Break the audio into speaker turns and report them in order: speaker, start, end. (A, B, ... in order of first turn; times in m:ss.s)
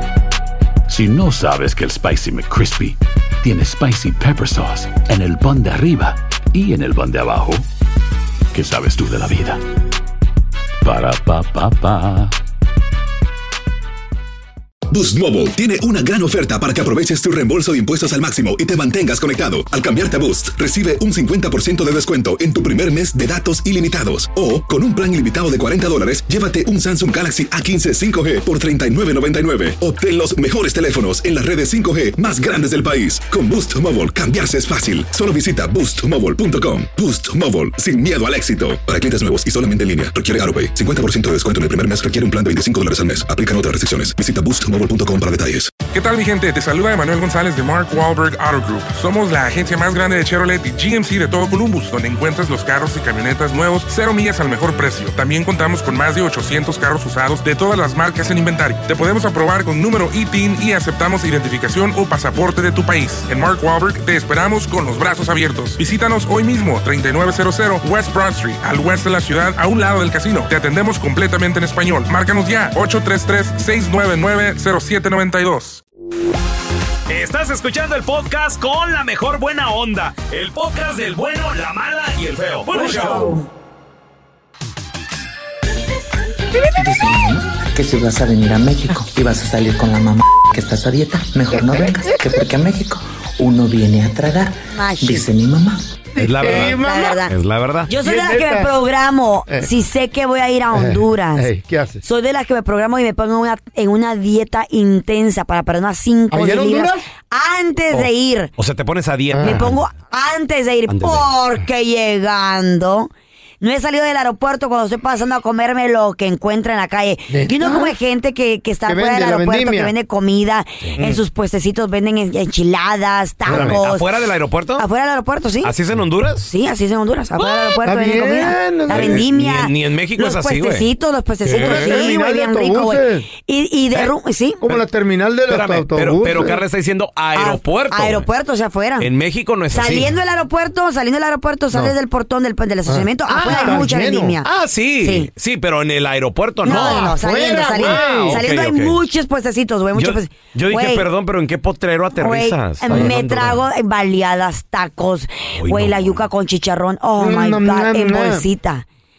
0:00.9-0:07.6 A
0:08.5-0:09.6 A
0:10.8-0:12.3 A
0:14.9-0:45.8 B
0:45.8-1:15.8 C
1:17.1-1:23.4 D
1:22.7-1:23.4 E
1:26.8-1:35.8 F
1:31.5-1:32.2 G
1:34.7-1:35.2 E
1:36.1-1:37.2 G
1:36.2-1:37.9 D
1:36.6-1:37.3 E
1:37.9-1:41.5 E
1:38.0-1:38.7 G
1:40.7-1:42.0 G
1:42.0-1:48.5 E
1:46.3-1:47.0 G
1:47.9-1:49.8 D
1:49.3-1:49.7 G
1:49.4-2:04.1 E
1:50.9-1:51.3 D
1:57.3-1:58.0 G
1:58.8-1:59.9 G
2:03.4-2:03.8 G
2:03.5-2:04.8 D
2:04.8-2:05.7 E
2:05.6-2:06.5 D
2:06.4-2:14.6 E
2:07.4-2:07.8 D
2:07.8-2:09.2 G
2:08.9-2:10.9 D
2:11.4-2:12.1 D
2:11.5-2:13.3 G
2:14.6-2:16.6 G
2:15.5-2:18.3 D
2:17.3-2:19.1 E
2:19.0-2:20.1 D
2:19.7-2:24.4 E
2:22.9-2:24.4 G
2:23.3-2:23.8 D
2:24.4-2:27.2 D
2:25.0-2:25.3 E
2:26.6-2:31.1 E
2:26.6-2:28.4 G
2:27.7-2:29.0 D
2:29.9-2:33.6 D
2:32.2-2:38.8 E
2:32.9-2:33.2 G
2:35.5-2:36.2 D
2:37.2-2:38.4 G